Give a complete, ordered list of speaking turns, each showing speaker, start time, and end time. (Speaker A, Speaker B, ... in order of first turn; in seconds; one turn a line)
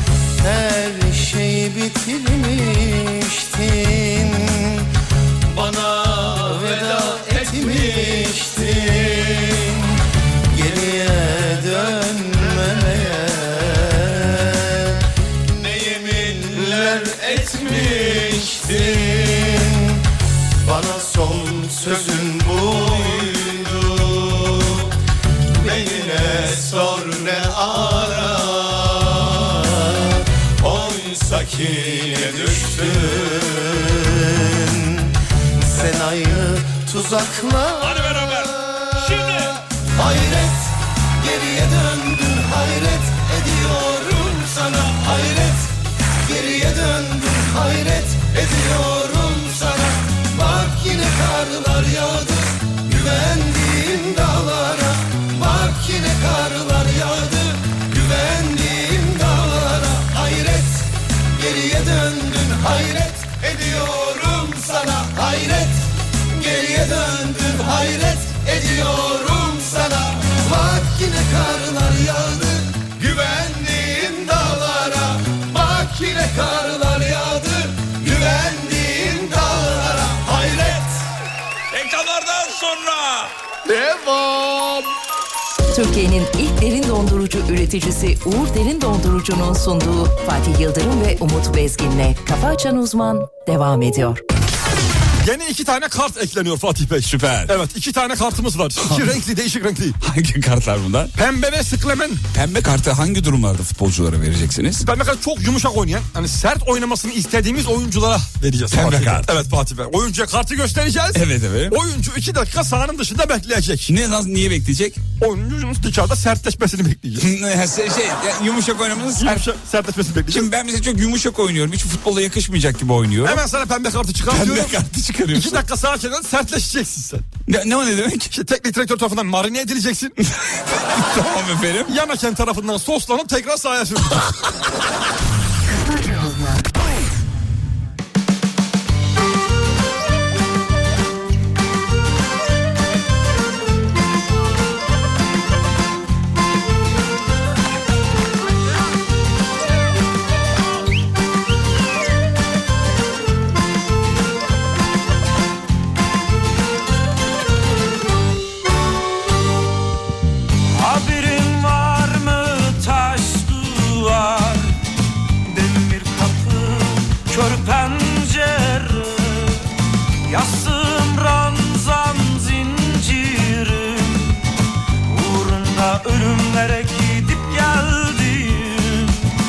Speaker A: 0.4-4.9
Speaker A: 5.5-9.9
Speaker A: 10.5-20.0
Speaker A: 20.6-24.9
Speaker A: 25.5-81.0
Speaker B: 37.8-39.5
Speaker B: 81.7-83.3
Speaker C: 83.7-84.9
Speaker D: 85.7-94.2
Speaker C: 95.2-100.0
Speaker B: 97.0-97.6
Speaker B: 98.8-99.1
Speaker B: 100.0-101.1
Speaker C: 101.1-102.2
Speaker B: 102.3-104.8
Speaker C: 104.8-113.9
Speaker B: 108.7-109.3
Speaker B: 111.1-111.8
Speaker B: 113.9-115.0
Speaker C: 115.2-117.3
Speaker B: 117.2-119.5
Speaker C: 119.2-120.5
Speaker B: 120.3-123.4
Speaker C: 123.2-127.3
Speaker B: 124.3-125.6
Speaker B: 127.5-128.3
Speaker C: 128.3-130.2
Speaker B: 130.2-131.9
Speaker C: 131.9-134.4
Speaker D: 135.8-136.6
Speaker E: 160.7-164.8
Speaker E: 165.4-169.7
Speaker E: 170.2-174.5
Speaker E: 175.1-179.3